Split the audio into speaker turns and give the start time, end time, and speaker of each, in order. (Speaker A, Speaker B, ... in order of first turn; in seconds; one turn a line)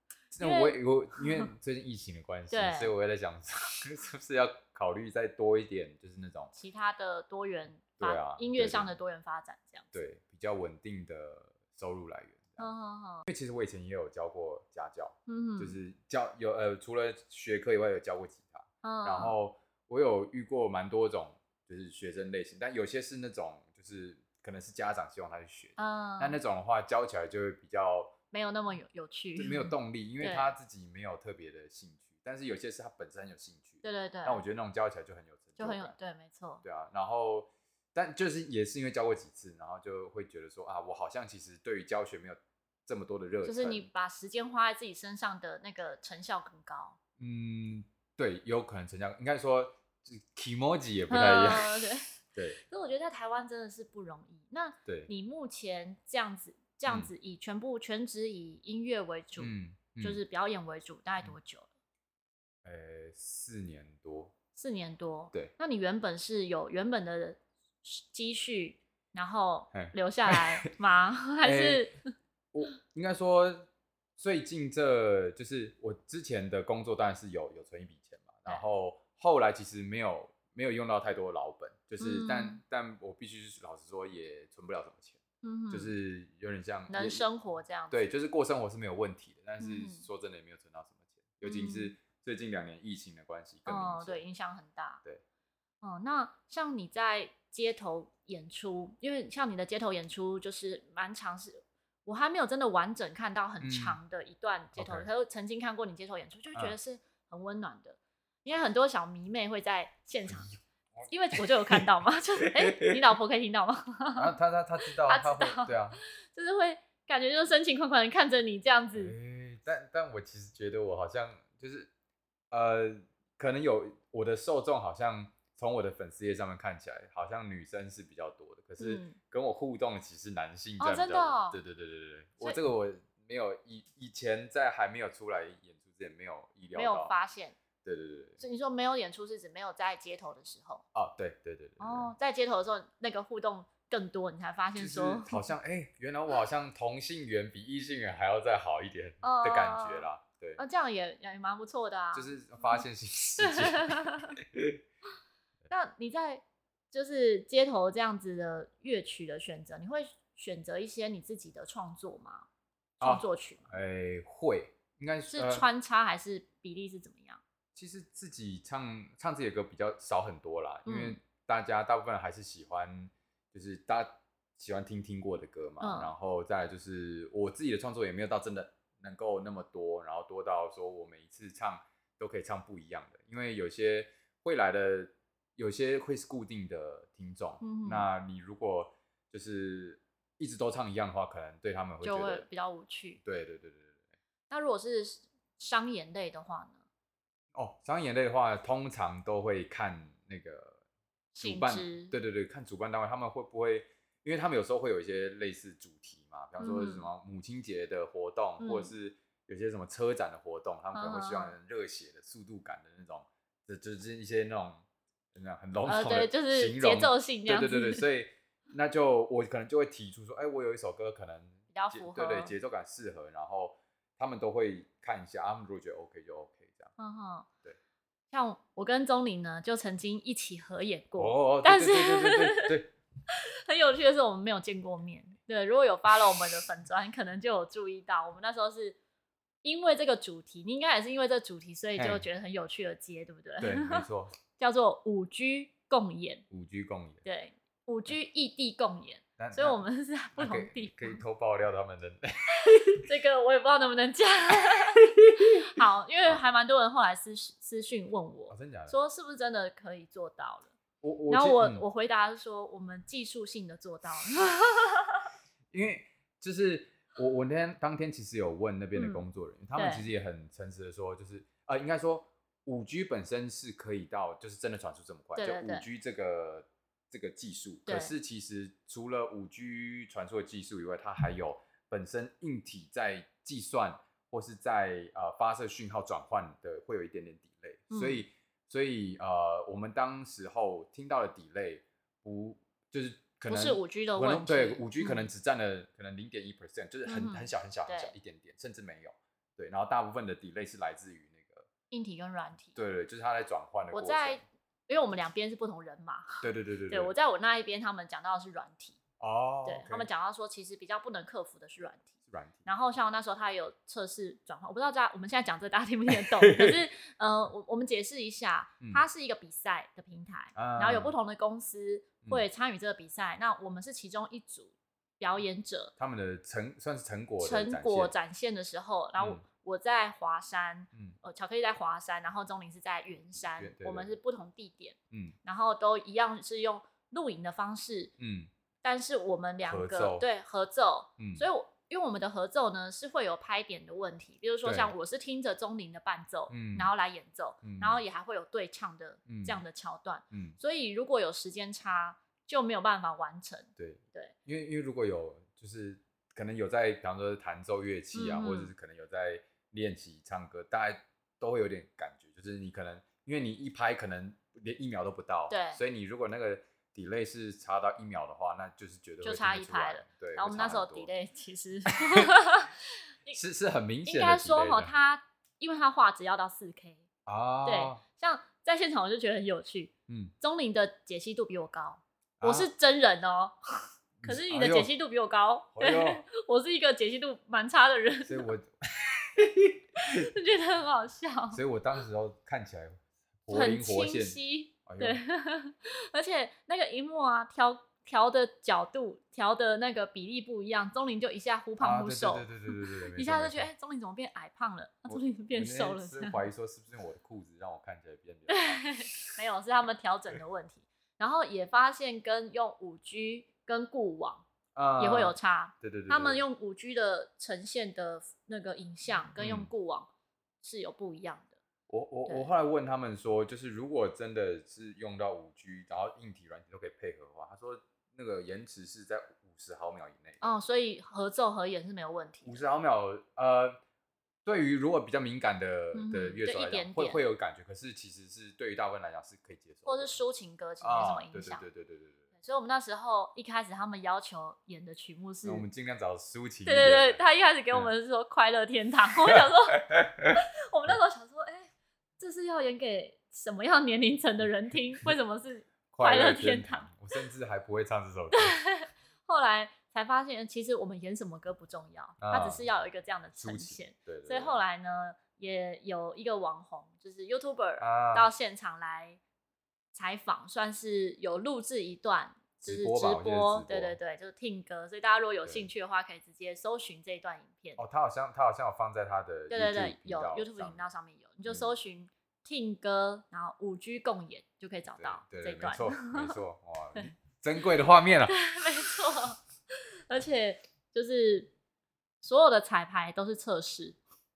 Speaker A: 0.3-6.5
Speaker B: 0.4-1.5
Speaker B: 2.5-2.9
Speaker B: 6.5-9.9
Speaker A: 8.0-8.9
Speaker A: 9.9-12.7
Speaker B: 12.6-13.2
Speaker A: 13.2-28.1
Speaker B: 15.3-15.8
Speaker B: 18.8-19.4
Speaker B: 25.8-26.4
Speaker B: 28.3-30.5
Speaker A: 29.4-36.0
Speaker B: 33.8-34.4
Speaker B: 35.6-36.6
Speaker A: 36.6-43.9
Speaker B: 43.4-47.0
Speaker A: 47.2-52.6
Speaker B: 51.1-61.7
Speaker A: 59.4-60.2
Speaker A: 62.6-64.3
Speaker B: 64.5-72.1
Speaker A: 69.7-70.4
Speaker A: 71.4-71.9
Speaker A: 72.5-87.2
Speaker B: 82.0-82.6
Speaker B: 85.4-85.9
Speaker B: 86.9-88.0
Speaker A: 87.9-94.2
Speaker B: 89.6-90.1
Speaker B: 91.4-91.9
Speaker B: 93.7-95.0
Speaker B: 95.8-110.5
Speaker A: 103.6-104.0
Speaker A: 104.8-105.1
Speaker A: 110.3-111.8
Speaker B: 111.1-114.3
Speaker A: 112.5-113.0
Speaker A: 114.2-116.0
Speaker B: 114.8-119.1
Speaker A: 118.9-121.9
Speaker A: 122.5-137.1
Speaker B: 128.8-129.2
Speaker B: 130.8-131.6
Speaker B: 136.7-137.6
Speaker A: 137.8-138.4
Speaker B: 138.4-140.8
Speaker A: 140.9-142.1
Speaker B: 141.8-145.4
Speaker A: 144.7-150.6
Speaker B: 149.2-152.3
Speaker A: 152.1-154.8
Speaker B: 153.4-154.3
Speaker B: 155.7-162.5
Speaker B: 163.0-163.7
Speaker A: 163.0-165.7
Speaker B: 165.3-167.4
Speaker A: 167.7-192.5
Speaker B: 170.8-171.2
Speaker B: 175.8-176.1
Speaker B: 187.6-188.1
Speaker B: 192.0-193.2
Speaker A: 193.2-194.0
Speaker B: 194.5-196.8
Speaker A: 197.5-200.8
Speaker B: 201.3-202.1
Speaker A: 201.4-214.8
Speaker B: 206.6-207.1
Speaker B: 208.6-208.9
Speaker B: 210.9-211.5
Speaker A: 215.3-226.9
Speaker B: 215.8-218.0
Speaker B: 221.7-222.5
Speaker B: 227.0-227.5
Speaker B: 228.3-232.8
Speaker A: 231.2-232.9
Speaker B: 233.3-239.0
Speaker B: 239.6-246.4
Speaker A: 242.0-242.2
Speaker A: 243.6-244.3
Speaker A: 246.5-247.2
Speaker B: 247.2-251.2
Speaker A: 249.4-249.8
Speaker A: 250.3-253.0
Speaker B: 253.0-260.7
Speaker A: 255.2-256.4
Speaker A: 258.5-258.9
Speaker A: 261.0-261.8
Speaker B: 261.3-265.2
Speaker A: 265.7-301.6
Speaker B: 268.9-269.2
Speaker B: 269.7-270.1
Speaker B: 275.4-275.8
Speaker B: 277.9-278.1
Speaker B: 287.9-288.2
Speaker B: 293.5-295.3
Speaker B: 297.1-298.1
Speaker B: 301.9-302.8
Speaker A: 302.7-304.4
Speaker B: 303.9-309.0
Speaker A: 306.4-307.1
Speaker A: 309.2-310.1
Speaker B: 309.6-312.1
Speaker A: 312.3-312.7
Speaker B: 312.6-325.9
Speaker A: 316.1-316.8
Speaker A: 320.6-321.1
Speaker A: 326.0-328.1
Speaker B: 327.4-338.1
Speaker A: 329.2-329.4
Speaker A: 333.6-334.1
Speaker A: 335.1-335.4
Speaker A: 338.2-338.5
Speaker B: 338.8-354.3
Speaker A: 339.6-340.2
Speaker A: 341.2-341.4
Speaker A: 344.6-344.9
Speaker A: 346.5-346.9
Speaker A: 347.6-348.0
Speaker A: 349.3-349.6
Speaker A: 350.3-350.6
Speaker A: 353.8-371.1
Speaker B: 358.1-358.7
Speaker B: 365.5-365.8
Speaker B: 369.2-372.7
Speaker A: 373.3-374.9
Speaker B: 374.0-377.1
Speaker A: 377.2-378.0
Speaker B: 377.6-383.6
Speaker A: 380.1-380.3
Speaker A: 382.4-382.7
Speaker A: 384.2-384.9
Speaker B: 384.2-388.5
Speaker A: 385.7-386.2
Speaker A: 388.2-390.3
Speaker B: 390.1-391.6
Speaker A: 391.5-395.2
Speaker B: 393.5-406.4
Speaker A: 401.8-403.7
Speaker A: 405.1-409.3
Speaker B: 408.5-414.4
Speaker A: 414.7-416.4
Speaker B: 415.0-420.1
Speaker A: 419.4-419.7
Speaker B: 420.6-421.5
Speaker A: 421.9-430.5
Speaker B: 430.4-432.6
Speaker A: 432.4-433.8
Speaker A: 434.4-440.2
Speaker B: 435.9-437.2
Speaker B: 439.8-441.6
Speaker A: 440.8-442.2
Speaker B: 442.4-445.6
Speaker A: 445.4-447.2
Speaker B: 446.6-456.9
Speaker A: 449.3-451.0
Speaker A: 455.9-458.6
Speaker B: 458.3-469.2
Speaker A: 462.2-462.6
Speaker A: 463.3-464.6
Speaker A: 467.8-468.3
Speaker B: 469.9-477.8
Speaker A: 472.6-474.0
Speaker A: 477.8-480.8
Speaker B: 479.5-486.4
Speaker A: 481.4-481.7
Speaker A: 484.9-488.4
Speaker B: 488.3-489.4
Speaker B: 490.1-491.5
Speaker B: 492.2-494.0